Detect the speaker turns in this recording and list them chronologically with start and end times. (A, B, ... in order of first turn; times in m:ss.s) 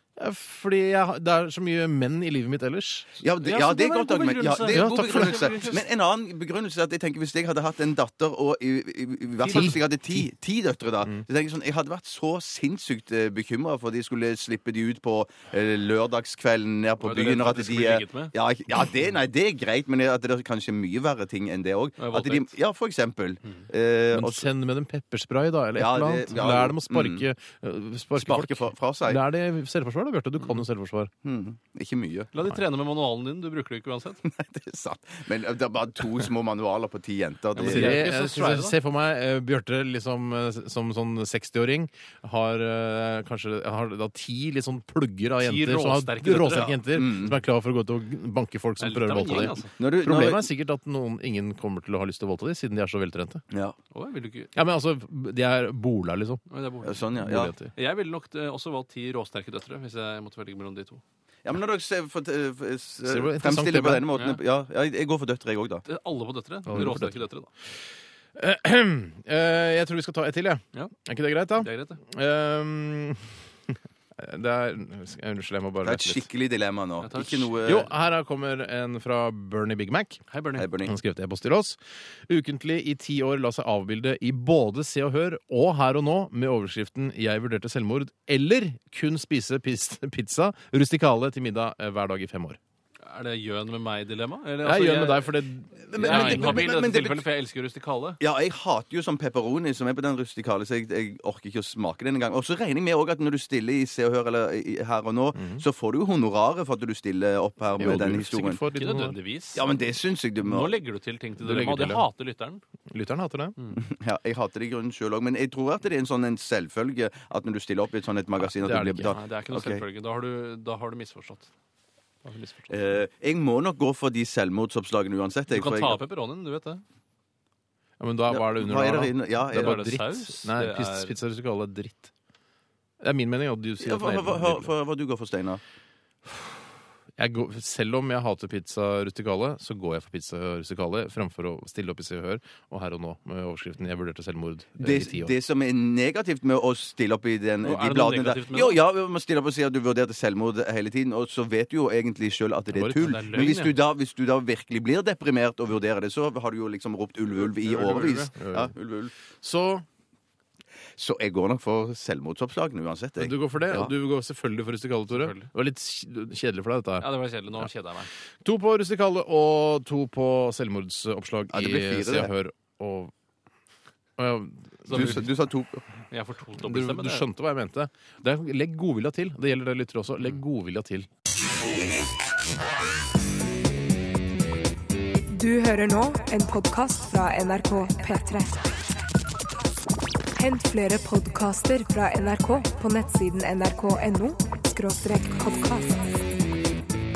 0:00.2-0:03.2 A
0:03.2-0:24.5 B
0:03.4-0:05.8 C
0:04.7-0:05.7 A
0:09.4-0:09.8 C
0:09.5-0:10.3 A
0:17.0-0:18.3 C
0:22.0-0:22.5 C
0:24.1-0:31.1 A
0:25.8-0:27.2 B
0:28.2-0:29.2 B
0:31.2-0:32.3 B
0:32.3-0:34.2 C
0:34.3-0:38.0 B
0:37.5-0:38.8 C
0:37.6-0:53.4 A
0:45.4-0:46.8 C
0:46.9-0:47.4 B
0:48.8-0:49.7 C
0:49.8-0:50.4 B
0:53.5-0:53.8 B
0:53.9-0:54.5 C
0:54.6-0:56.4 A
0:56.5-0:57.1 C
0:56.8-0:57.5 B
0:57.2-0:57.7 A
0:57.8-1:01.0 C
1:01.4-1:05.8 B
1:03.0-1:04.1 A
1:04.1-1:04.4 C
1:05.9-1:07.5 C
1:06.7-1:07.3 A
1:08.4-1:16.3 A
1:11.6-1:12.0 C
1:15.8-1:17.9 B
1:17.0-1:17.6 C
1:17.6-1:20.2 A
1:20.3-1:20.7 C
1:20.5-1:20.9 B
1:20.8-1:32.6 A
1:33.0-1:35.4 C
1:34.6-1:36.7 A
1:35.9-1:37.3 B
1:36.0-1:38.2 C
1:38.2-1:48.6 B
1:45.3-1:45.6 A
1:47.8-1:49.2 A
1:48.7-1:49.6 C
1:49.6-1:50.8 B
1:50.4-1:52.6 C
1:51.4-1:52.0 A
1:52.9-1:53.6 A
1:53.8-1:59.8 B
1:58.4-1:59.2 A
1:59.1-2:01.5 C
2:02.2-2:03.0 C
2:02.7-2:06.0 B
2:05.5-2:06.8 C
2:08.0-2:12.1 A
2:08.3-2:09.9 B
2:09.5-2:11.2 C
2:13.0-2:14.7 A
2:13.8-2:15.6 B
2:17.2-2:25.3 A
2:24.8-2:39.1 B
2:27.6-2:28.8 C
2:32.7-2:33.8 C
2:37.4-2:38.3 C
2:38.4-2:38.7 A
2:39.4-2:39.8 A
2:41.0-2:43.9 B
2:43.2-2:47.7 A
2:45.1-2:45.5 C
2:47.0-2:48.1 C
2:48.4-2:53.1 A
2:51.5-2:52.3 B
2:54.2-2:55.3 A
2:54.9-2:55.2 C
2:54.9-2:55.8 B
2:56.1-2:57.3 C
2:56.6-3:01.1 A
3:05.3-3:08.6 D
3:10.4-3:16.0 D